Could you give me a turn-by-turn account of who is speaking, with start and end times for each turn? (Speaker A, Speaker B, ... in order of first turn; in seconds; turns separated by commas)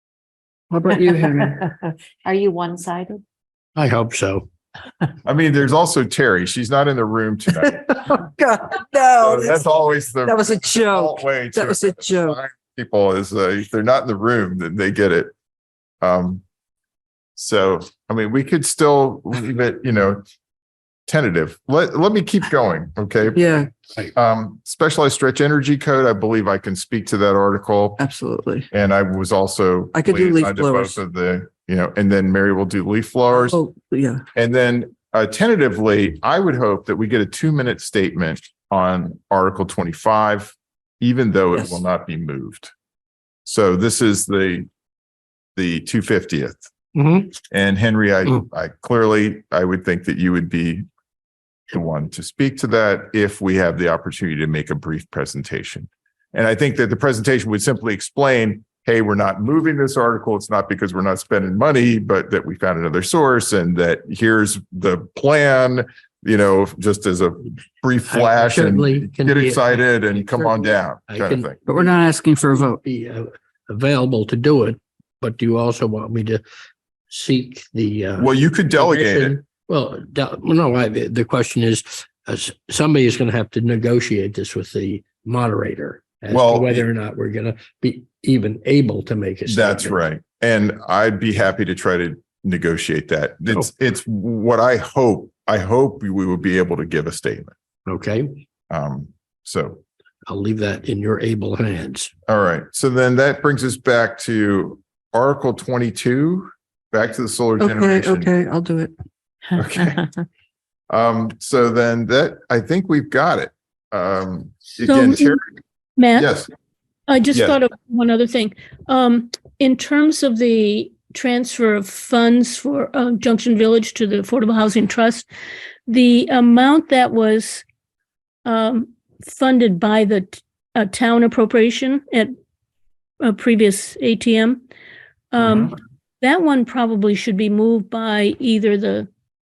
Speaker A: 0.7-1.6, Speaker B: 1.1-3.2, Speaker C: 3.8-4.5, Speaker D: 5.2-8.2, Speaker A: 7.6-9.7, Speaker D: 9.2-15.3, Speaker A: 10.2-12.4, Speaker D: 16.0-16.4, Speaker D: 17.4-20.2, Speaker D: 21.1-28.0, Speaker A: 23.3-23.7, Speaker A: 28.0-28.7, Speaker D: 28.7-33.6, Speaker A: 29.9-31.0, Speaker A: 33.3-34.2, Speaker D: 34.3-42.7, Speaker D: 43.4-44.7, Speaker D: 45.5-46.6, Speaker C: 46.9-47.4, Speaker D: 47.5-50.8, Speaker D: 51.7-71.5, Speaker C: 68.1-76.4, Speaker A: 71.7-72.8, Speaker C: 77.1-90.0, Speaker D: 78.2-79.4, Speaker D: 86.3-86.9, Speaker D: 89.5-97.5, Speaker C: 97.8-98.4, Speaker D: 98.7-99.8, Speaker C: 100.2-102.1, Speaker D: 102.3-108.3, Speaker A: 107.6-108.9, Speaker D: 109.5-110.1, Speaker D: 110.9-115.4, Speaker E: 114.8-115.4, Speaker E: 116.0-116.3, Speaker D: 116.1-116.5, Speaker E: 117.1-125.3, Speaker E: 125.9-127.6, Speaker E: 128.4-132.3, Speaker E: 133.2-134.6, Speaker E: 135.3-139.1